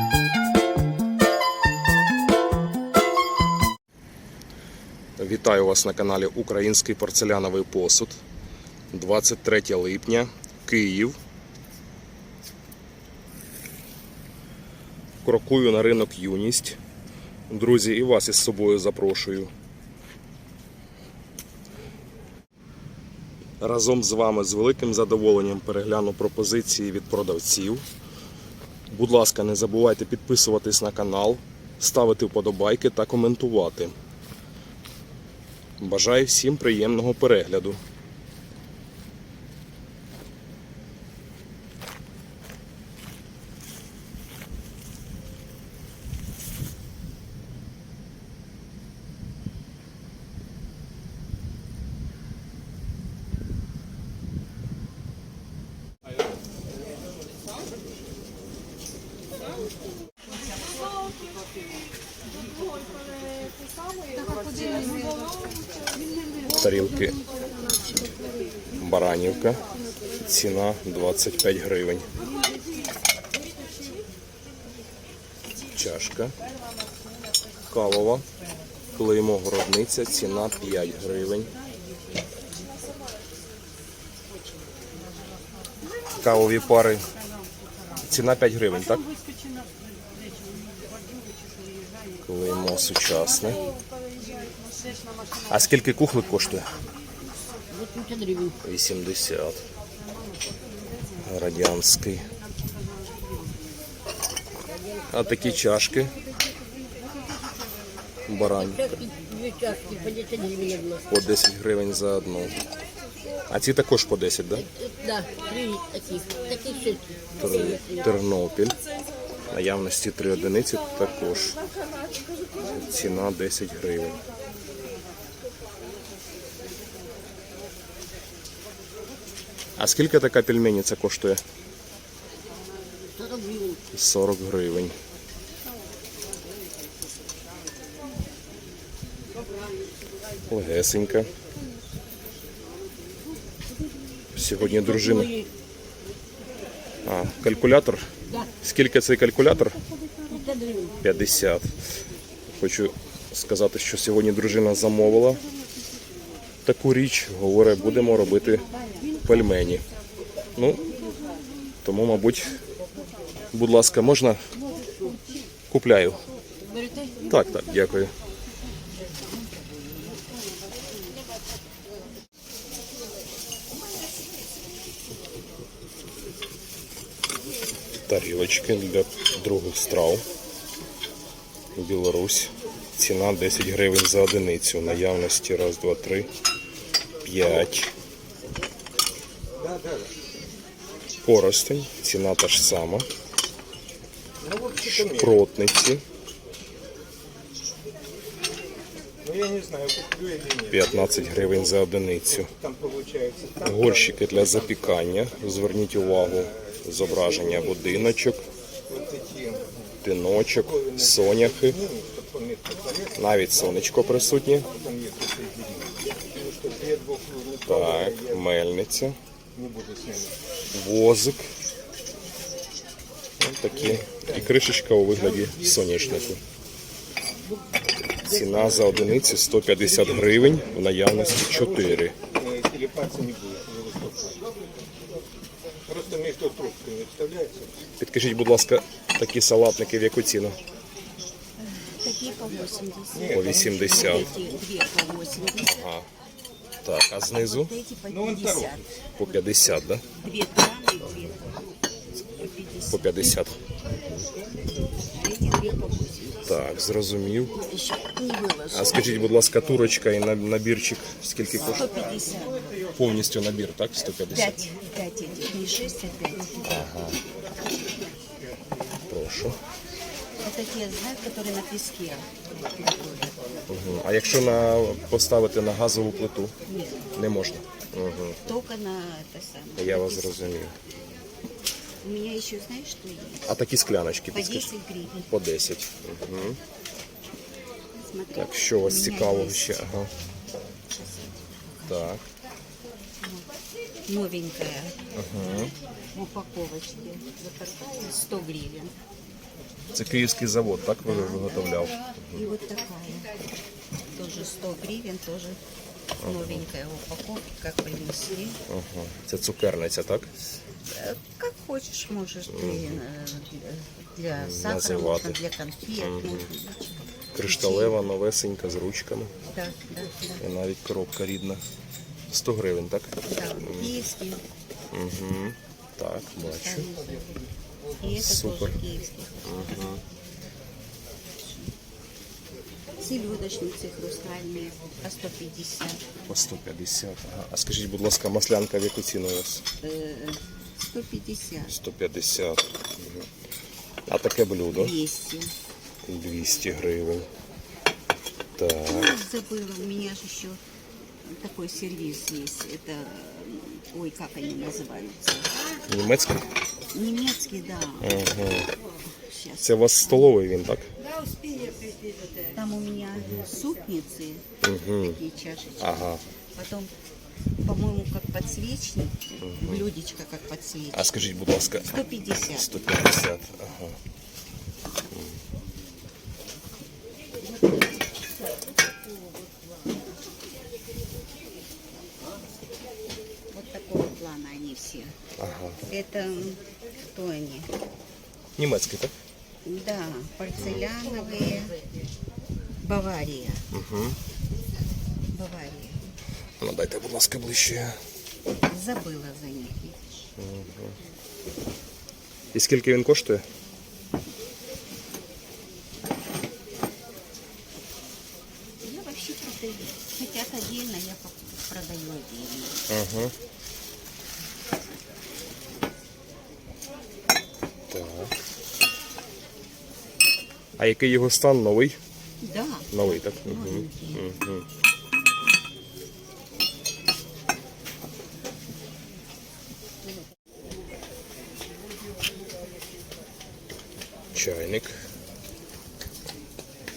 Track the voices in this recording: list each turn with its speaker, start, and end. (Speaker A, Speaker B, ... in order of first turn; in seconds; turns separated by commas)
Speaker A: 5.2-8.2, Speaker A: 8.9-11.2, Speaker A: 15.2-16.8, Speaker A: 17.5-19.5, Speaker A: 23.6-27.9, Speaker A: 28.9-34.0, Speaker A: 35.8-37.8, Speaker A: 66.5-67.2, Speaker A: 68.8-69.6, Speaker A: 70.2-72.1, Speaker A: 75.7-76.3, Speaker A: 77.7-78.3, Speaker A: 79.0-81.5, Speaker A: 86.2-87.0, Speaker A: 88.0-89.0, Speaker B: 89.1-89.7, Speaker B: 90.6-90.9, Speaker B: 91.7-92.0, Speaker A: 92.2-93.6, Speaker A: 95.5-96.7, Speaker B: 97.7-98.6, Speaker A: 98.6-99.7, Speaker A: 101.2-102.3, Speaker B: 104.7-105.6, Speaker A: 105.1-106.1, Speaker A: 108.3-108.9, Speaker B: 108.4-111.1, Speaker A: 111.1-112.6, Speaker A: 113.5-114.7, Speaker B: 114.6-118.1, Speaker A: 117.4-118.8, Speaker A: 119.5-121.6, Speaker A: 122.6-124.2, Speaker A: 129.8-131.4, Speaker B: 133.1-133.8, Speaker A: 133.9-135.0, Speaker A: 140.5-141.3, Speaker A: 144.3-145.3, Speaker B: 144.6-145.5, Speaker A: 147.1-148.1, Speaker A: 148.6-149.8, Speaker B: 150.1-151.1, Speaker A: 151.0-151.7, Speaker A: 152.5-155.4, Speaker A: 156.7-158.7, Speaker A: 159.2-159.8, Speaker A: 160.6-160.8, Speaker A: 161.8-162.6, Speaker A: 163.5-164.4, Speaker B: 164.8-165.4, Speaker A: 165.7-166.2, Speaker B: 166.7-167.4, Speaker A: 167.3-168.1, Speaker A: 178.1-180.2, Speaker A: 181.8-186.3, Speaker A: 187.2-187.9, Speaker C: 189.6-190.1, Speaker A: 191.2-193.1, Speaker C: 194.4-195.4, Speaker A: 194.8-196.0, Speaker C: 199.2-201.8, Speaker A: 200.7-202.5, Speaker C: 202.3-204.9, Speaker A: 203.6-208.4, Speaker C: 206.1-208.2, Speaker C: 208.9-209.9, Speaker A: 210.0-211.8, Speaker C: 210.5-218.4, Speaker A: 213.2-214.7, Speaker A: 217.7-219.2, Speaker C: 219.5-220.4, Speaker A: 220.7-221.5, Speaker A: 223.4-226.4, Speaker C: 223.7-224.6, Speaker C: 225.1-226.4, Speaker A: 228.2-232.1, Speaker C: 228.2-234.5, Speaker C: 235.9-237.8, Speaker A: 238.0-240.6, Speaker D: 241.6-245.9, Speaker C: 243.1-244.6, Speaker A: 243.3-244.3, Speaker A: 245.6-246.1, Speaker A: 246.8-247.7, Speaker D: 247.4-253.4, Speaker C: 248.1-248.8, Speaker A: 249.2-250.0, Speaker A: 252.9-253.6, Speaker D: 255.1-256.6, Speaker A: 256.5-257.5, Speaker D: 257.6-259.3, Speaker A: 258.7-261.9, Speaker D: 261.5-262.7, Speaker A: 263.0-264.7, Speaker D: 264.3-266.8, Speaker A: 266.7-267.2, Speaker A: 269.1-269.6, Speaker D: 270.4-273.5, Speaker A: 273.7-276.6, Speaker D: 276.7-277.1, Speaker A: 277.1-278.4, Speaker D: 278.4-280.6, Speaker A: 279.8-280.8, Speaker D: 282.0-283.5, Speaker A: 283.5-284.7, Speaker D: 284.3-285.3, Speaker A: 285.3-286.6, Speaker D: 288.0-289.8, Speaker A: 288.4-290.1, Speaker D: 290.9-292.1, Speaker A: 291.9-292.2, Speaker D: 293.2-293.5, Speaker D: 294.1-295.0, Speaker A: 295.1-295.7, Speaker D: 296.1-298.9, Speaker A: 299.9-302.4, Speaker D: 301.0-303.3, Speaker D: 304.1-305.6, Speaker A: 306.2-306.6, Speaker D: 306.2-308.6, Speaker A: 308.7-310.3, Speaker D: 310.9-318.0, Speaker A: 312.5-313.0, Speaker A: 314.4-315.4, Speaker A: 316.0-316.5, Speaker A: 317.3-319.3, Speaker D: 319.5-320.5, Speaker A: 320.4-321.6, Speaker A: 322.3-324.0, Speaker D: 323.3-324.4, Speaker A: 324.9-326.9, Speaker D: 326.4-327.4, Speaker D: 328.0-329.9, Speaker A: 328.1-328.8, Speaker A: 329.4-330.0, Speaker D: 333.0-336.1, Speaker A: 336.3-339.6, Speaker D: 339.8-341.8, Speaker A: 341.7-343.3, Speaker A: 344.1-344.9, Speaker D: 344.7-345.5, Speaker A: 346.1-347.3, Speaker A: 348.6-349.1, Speaker D: 348.9-350.6, Speaker D: 351.2-355.8, Speaker A: 355.9-356.5, Speaker D: 356.9-358.3, Speaker A: 358.0-358.7, Speaker D: 359.1-360.3, Speaker A: 359.6-360.9, Speaker D: 361.2-364.5, Speaker A: 364.6-365.2, Speaker D: 365.1-366.9, Speaker A: 365.8-366.2, Speaker D: 367.6-371.1, Speaker A: 369.4-369.9, Speaker A: 370.9-371.9, Speaker D: 371.9-372.8, Speaker A: 372.5-374.0, Speaker A: 375.1-375.4, Speaker D: 383.5-385.2, Speaker A: 385.4-385.8, Speaker D: 385.9-387.7, Speaker A: 388.6-389.1, Speaker D: 389.6-391.8, Speaker A: 390.6-390.9, Speaker D: 392.8-393.7, Speaker A: 393.7-394.2, Speaker D: 395.3-396.1, Speaker A: 396.6-398.0, Speaker D: 398.7-400.2, Speaker A: 400.4-401.0, Speaker A: 402.5-403.4, Speaker D: 408.8-412.9, Speaker A: 412.9-413.3, Speaker A: 417.9-418.4, Speaker A: 420.8-422.0, Speaker D: 422.4-424.3, Speaker A: 422.9-424.7, Speaker A: 434.3-434.9